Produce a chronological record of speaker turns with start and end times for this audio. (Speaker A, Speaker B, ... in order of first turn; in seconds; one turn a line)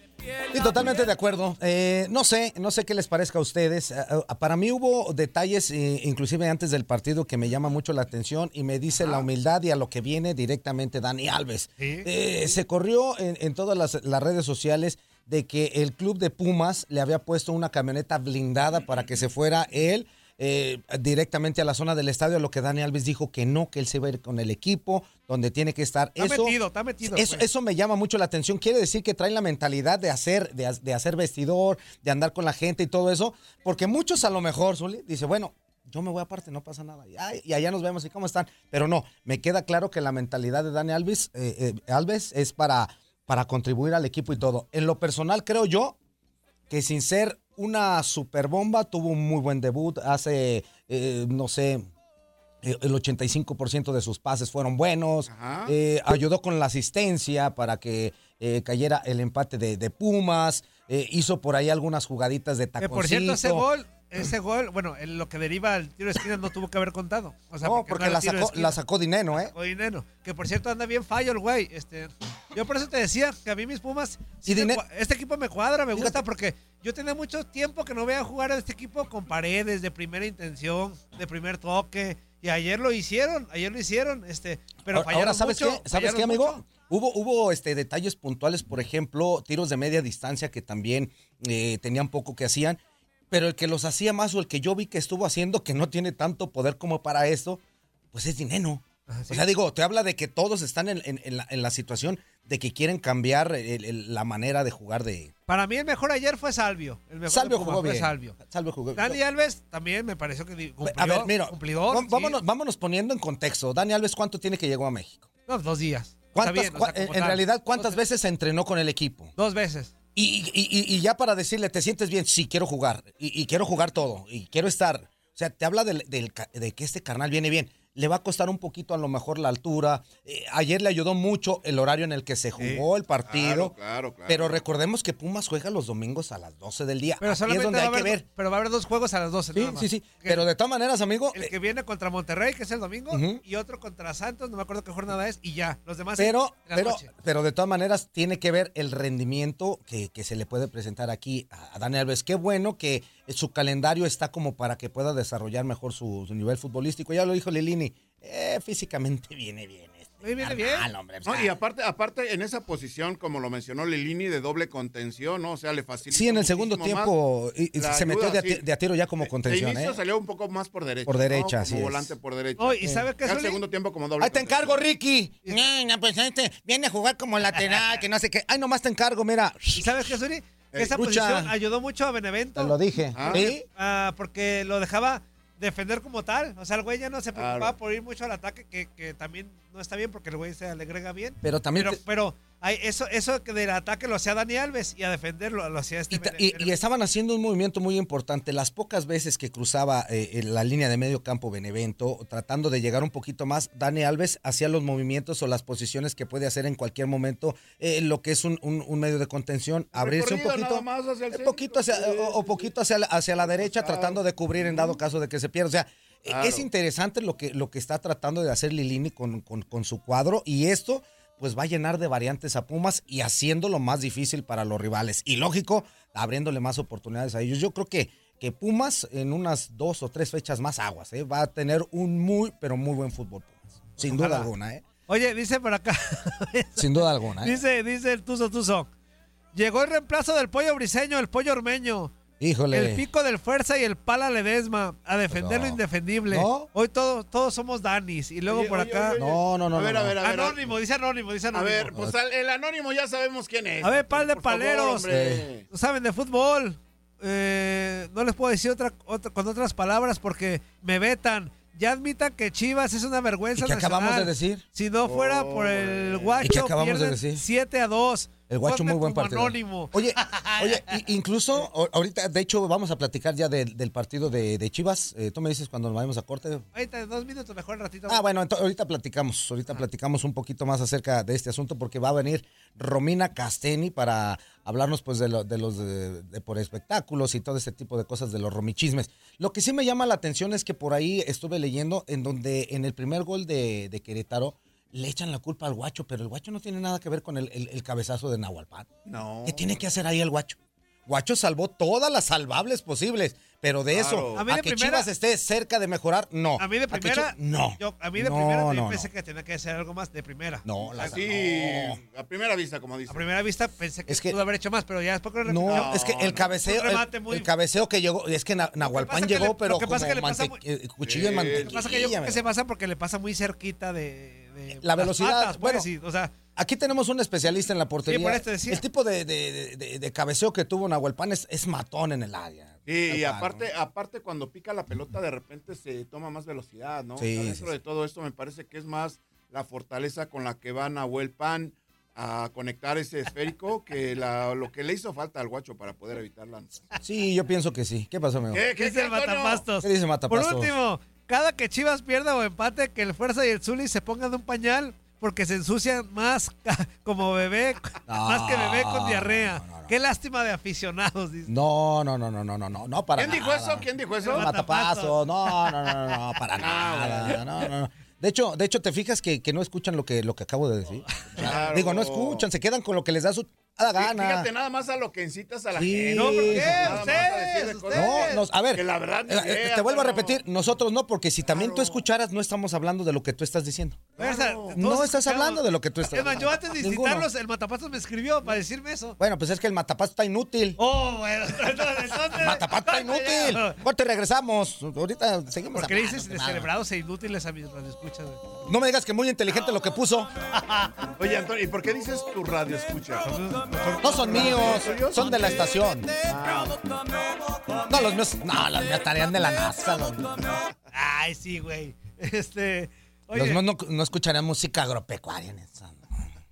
Speaker A: 0.5-46.0
Speaker B: 9.0-9.3
Speaker C: 11.8-12.1
Speaker C: 26.2-27.5
Speaker A: 46.7-51.9
Speaker A: 52.6-63.7
Speaker B: 55.3-55.7
Speaker C: 62.8-68.8
Speaker A: 67.6-69.5
Speaker C: 69.4-86.7
Speaker A: 74.5-74.8
Speaker A: 75.9-76.2
Speaker A: 84.9-92.8
Speaker A: 93.3-97.6
Speaker A: 98.1-105.3
Speaker C: 99.1-99.4
Speaker C: 105.5-108.4
Speaker A: 107.3-109.2
Speaker C: 109.0-112.3
Speaker A: 110.8-115.3
Speaker C: 115.5-118.0
Speaker A: 116.3-119.3
Speaker C: 119.4-119.9
Speaker A: 120.2-133.8
Speaker B: 132.6-134.6
Speaker A: 134.3-138.3
Speaker C: 137.2-140.4
Speaker A: 139.5-141.5
Speaker C: 141.3-147.1
Speaker A: 143.1-143.4
Speaker A: 146.2-161.6
Speaker C: 160.2-160.9
Speaker B: 161.2-167.1
Speaker A: 166.1-170.0
Speaker B: 167.8-168.6
Speaker B: 169.2-174.8
Speaker A: 171.1-172.1
Speaker C: 172.6-173.6
Speaker A: 174.2-180.1
Speaker C: 179.7-196.8
Speaker A: 180.9-181.5
Speaker A: 182.6-183.7
Speaker B: 183.2-183.5
Speaker B: 187.3-187.7
Speaker A: 191.4-192.0
Speaker A: 196.1-234.8
Speaker B: 209.9-212.7
Speaker B: 213.4-215.0
Speaker B: 216.3-216.7
Speaker C: 234.0-234.5
Speaker C: 235.1-238.9
Speaker A: 236.8-237.6
Speaker C: 239.5-242.2
Speaker A: 242.4-243.0
Speaker C: 242.7-249.2
Speaker A: 245.3-246.7
Speaker B: 248.5-250.7
Speaker A: 249.2-250.2
Speaker C: 250.2-251.9
Speaker B: 251.5-255.7
Speaker C: 253.8-255.1
Speaker A: 255.1-255.5
Speaker C: 255.7-270.9
Speaker A: 263.6-264.6
Speaker B: 265.0-266.5
Speaker A: 266.4-267.4
Speaker A: 268.5-276.6
Speaker C: 276.8-278.2
Speaker A: 278.1-298.9
Speaker B: 299.1-299.8
Speaker A: 299.4-309.1
Speaker B: 303.9-304.4
Speaker C: 304.4-305.1
Speaker C: 306.6-310.7
Speaker A: 310.7-312.0
Speaker B: 310.9-313.3
Speaker C: 313.1-317.5
Speaker A: 314.1-314.4
Speaker A: 315.4-322.4
Speaker B: 315.7-316.5
Speaker C: 318.8-320.6
Speaker B: 321.0-321.7
Speaker C: 321.6-326.4
Speaker A: 324.8-325.9
Speaker A: 326.6-333.7
Speaker C: 328.1-328.8
Speaker B: 332.9-346.9
Speaker A: 337.2-337.7
Speaker A: 347.0-348.6
Speaker B: 348.5-349.6
Speaker C: 348.8-361.5
Speaker A: 349.8-350.7
Speaker A: 358.1-359.9
Speaker A: 361.5-374.5
Speaker B: 363.2-364.5
Speaker C: 364.2-365.9
Speaker B: 366.6-367.4
Speaker B: 371.4-372.5
Speaker B: 374.0-380.4
Speaker A: 375.7-377.3
Speaker C: 376.1-378.4
Speaker A: 377.9-384.1
Speaker B: 381.5-382.0
Speaker B: 384.2-384.8
Speaker C: 384.2-389.2
Speaker A: 384.8-387.3
Speaker A: 389.2-390.8
Speaker C: 390.8-393.8
Speaker A: 392.3-396.7
Speaker C: 395.7-398.4
Speaker A: 398.7-400.3
Speaker C: 400.6-401.1
Speaker B: 401.2-403.4
Speaker C: 403.2-405.7
Speaker A: 404.0-406.1
Speaker B: 404.0-405.7
Speaker B: 406.2-406.8
Speaker A: 407.9-410.4
Speaker C: 410.9-413.6
Speaker A: 413.3-416.3